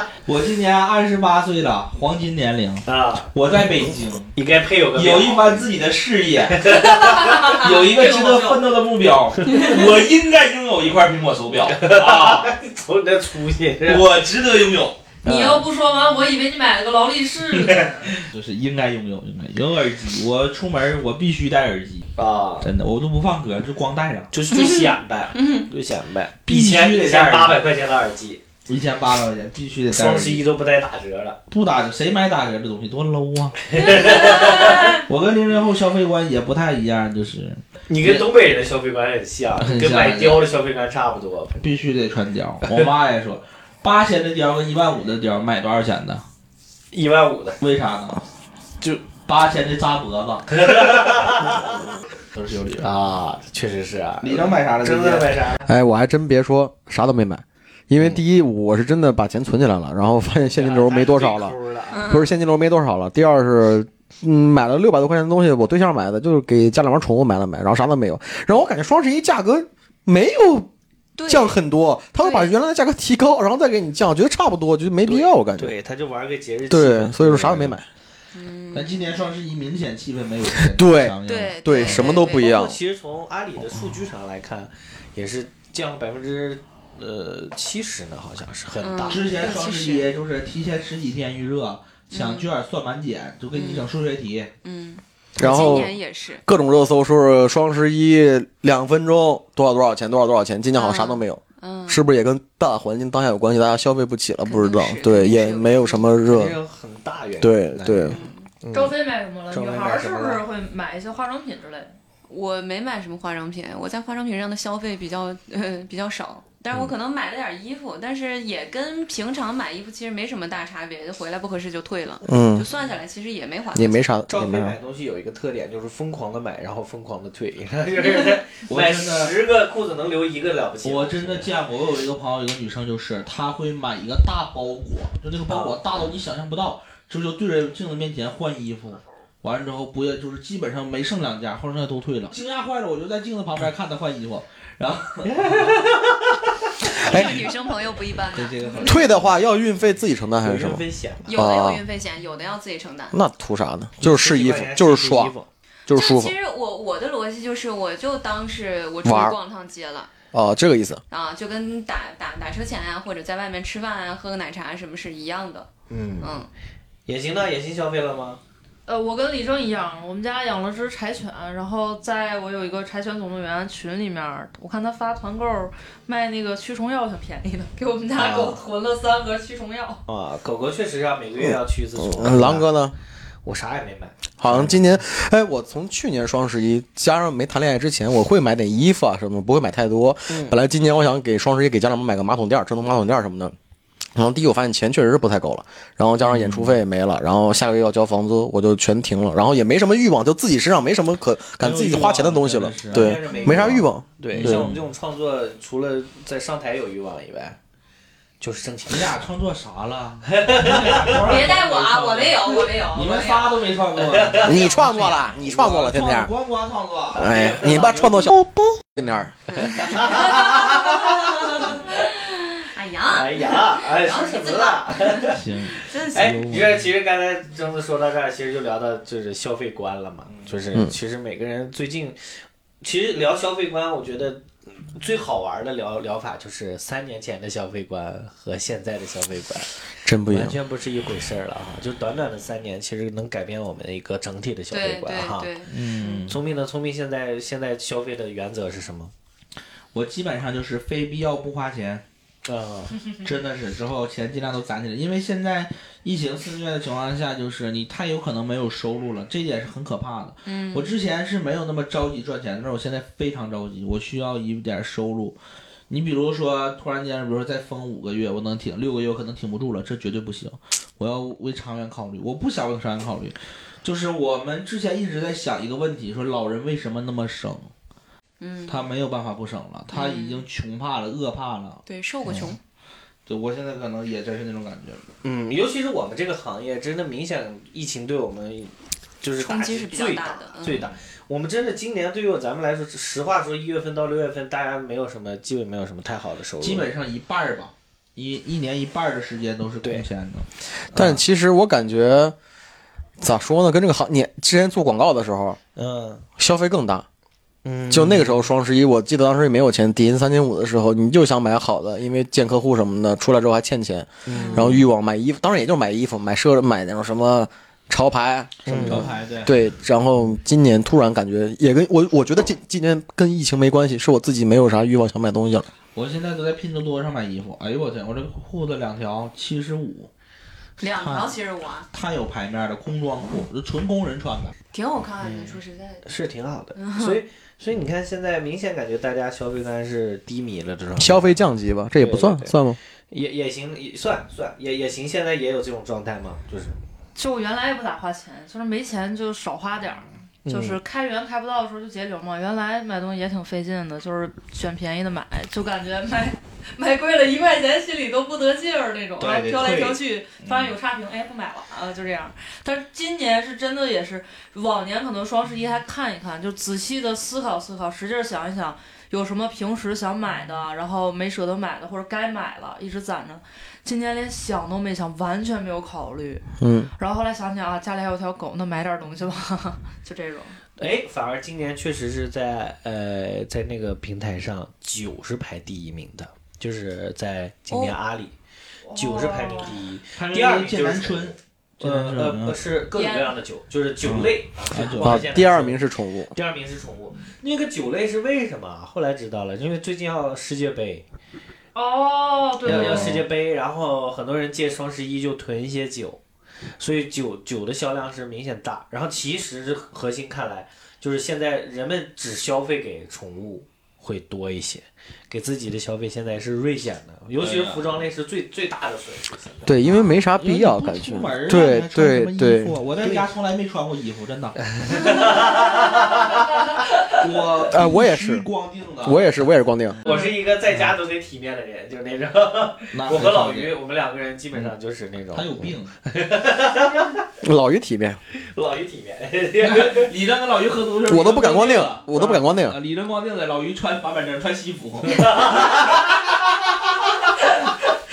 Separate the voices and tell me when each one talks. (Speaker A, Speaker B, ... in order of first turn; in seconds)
Speaker A: 0.2-4.3, 4.9-6.7, 7.3-12.5, 13.8-15.0, 18.3-22.1, 22.6-24.3, 26.5-27.6, 28.7-30.4, 31.5-33.6, 34.9-38.3, 39.6-40.5, 41.6-46.2, 47.6-48.2, 49.0-50.9, 52.3-53.0, 54.2-55.5, 78.7-82.0, 89.1-94.5, 128.0-129.3, 130.8-145.7, 147.1-147.5, 148.3-149.3, 196.2-196.8, 201.6-204.8, 208.9-218.3, 225.3-226.9, 245.7-246.4, 249.9-252.0, 253.2-265.4, 265.9-277.7, 278.7-282.6, 283.2-285.0, 296.6-301.2, 318.7-319.6, 325.9-330.1, 330.9-331.4, 331.9-334.5, 360.4-360.7, 390.1-392.6, 394.0-395.5, 402.7-403.2, 417.4-418.1, 420.4-425.2, 427.1-429.4, 430.7-430.9, 432.9-433.8, 435.3-435.9, 439.6-445.8
Speaker B: 2.9-5.6, 6.5-7.5, 9.4-9.9, 11.5-14.0, 15.2-15.7, 22.2-22.7, 24.3-28.4, 29.9-31.4, 33.7-35.0, 37.9-41.6, 46.9-47.6, 50.5-51.9, 52.8-55.7, 60.5-62.1, 75.0-77.8, 81.9-89.6, 106.2-108.9, 109.5-110.4, 124.3-131.5, 135.5-135.8, 145.2-146.4, 146.9-147.2, 150.4-151.4, 154.0-155.5, 165.9-166.4, 167.1-168.4, 178.2-178.6, 180.1-182.7, 183.4-184.8, 190.3-190.6, 202.9-207.6, 208.4-209.1, 210.3-211.4, 214.1-214.7, 217.3-217.8, 219.8-220.4, 223.1-225.4, 226.0-232.2, 232.8-239.7, 240.3-245.5, 246.2-249.1, 252.4-253.0, 285.2-296.9, 305.8-306.2, 307.6-308.5, 314.2-314.8, 318.6-319.1, 335.2-341.4, 342.0-342.5, 343.1-346.8, 350.4-350.8, 359.2-360.0, 380.8-388.3, 388.9-395.8, 396.3-401.1, 402.6-406.2, 406.8-419.8, 423.0-423.3, 424.7-427.1, 430.0-437.2, 438.5-440.1, 445.0-446.3
Speaker C: 6.7-8.6, 15.2-18.1, 108.7-112.0, 168.8-180.0, 347.1-376.4, 377.0-380.6, 388.8-389.8, 392.9-393.3, 401.7-403.1
Speaker D: 24.5-25.6, 33.8-35.0, 61.9-62.3, 71.2-71.6, 72.2-72.5, 78.3-79.1, 81.2-82.5, 88.8-90.1, 92.1-92.5, 93.5-93.9, 94.6-96.4, 100.7-102.1, 104.5-106.1, 108.0-108.5, 112.3-124.0, 146.9-149.1, 151.2-153.2, 155.9-160.1, 161.1-165.7, 166.2-166.5, 211.2-213.6, 220.0-226.3, 244.7-246.2, 260.5-260.9, 278.4-278.9, 279.9-280.4, 281.8-282.6, 289.4-290.9, 314.3-314.7, 330.8-331.9, 334.7-336.0, 336.8-337.2
Speaker E: 55.7-61.5, 62.1-70.7, 71.3-75.7, 76.7-77.8, 80.7-82.8, 95.4-106.6, 107.4-108.2, 122.2-122.7, 123.7-124.8, 147.0-147.4, 148.8-151.8, 153.1-155.3, 155.9-156.3, 159.0-159.3, 160.3-161.0, 181.4-182.9, 184.4-193.5, 194.1-204.7, 214.4-216.3, 217.1-220.3, 240.0-240.6, 300.9-302.4, 303.2-305.6, 306.4-307.1, 307.9-325.7, 341.0-342.8, 376.6-376.9, 395.0-396.3, 419.6-422.8, 427.7-428.4, 429.0-430.0, 437.4-438.2, 441.1-442.8